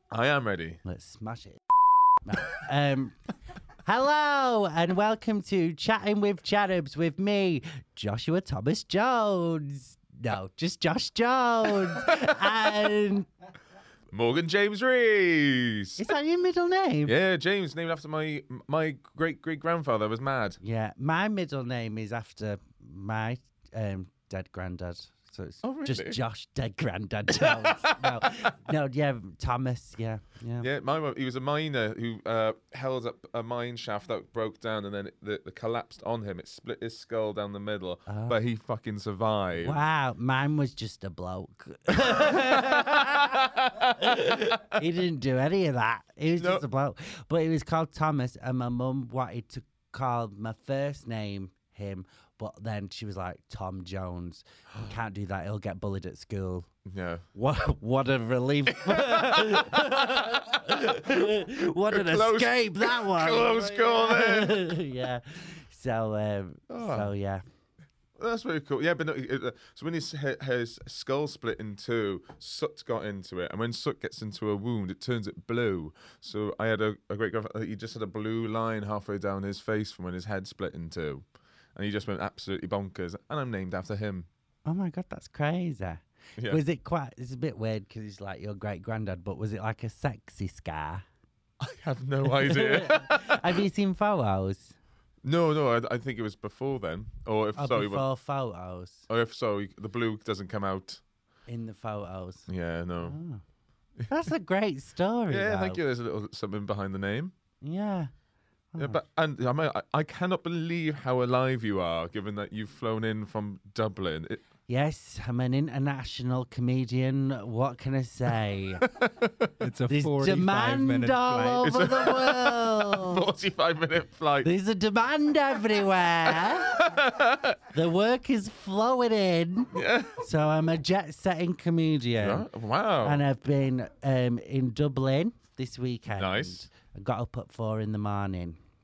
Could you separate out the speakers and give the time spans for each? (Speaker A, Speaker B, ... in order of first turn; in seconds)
Speaker A: 0.1-0.8, 12.0-12.3, 14.1-16.1, 17.1-20.6, 25.6-26.2, 27.3-28.5, 30.6-39.8, 42.0-44.8, 46.4-46.6, 56.9-57.2, 58.7-64.8, 66.7-67.1, 68.2-81.2, 81.8-84.3, 91.6-93.6, 95.2-98.0, 99.1-101.0, 102.5-103.2, 105.3-107.3, 108.8-114.4, 118.8-119.5, 121.6-124.5, 126.7-127.6, 129.7-130.2, 132.2-133.2, 136.1-136.7
Speaker B: 0.8-1.6, 2.2-3.2, 3.8-13.3, 16.0-17.1, 20.6-30.7, 38.1-38.4, 39.6-43.4, 44.0-56.7, 57.4-67.4, 84.7-91.0, 92.2-94.8, 97.6-99.1, 101.5-102.5, 103.0-103.4, 104.1-105.8, 107.6-108.1, 108.7-109.0, 114.7-118.9, 119.9-123.2, 124.4-126.8, 127.7-132.5, 133.0-138.6
Speaker C: 119.6-121.7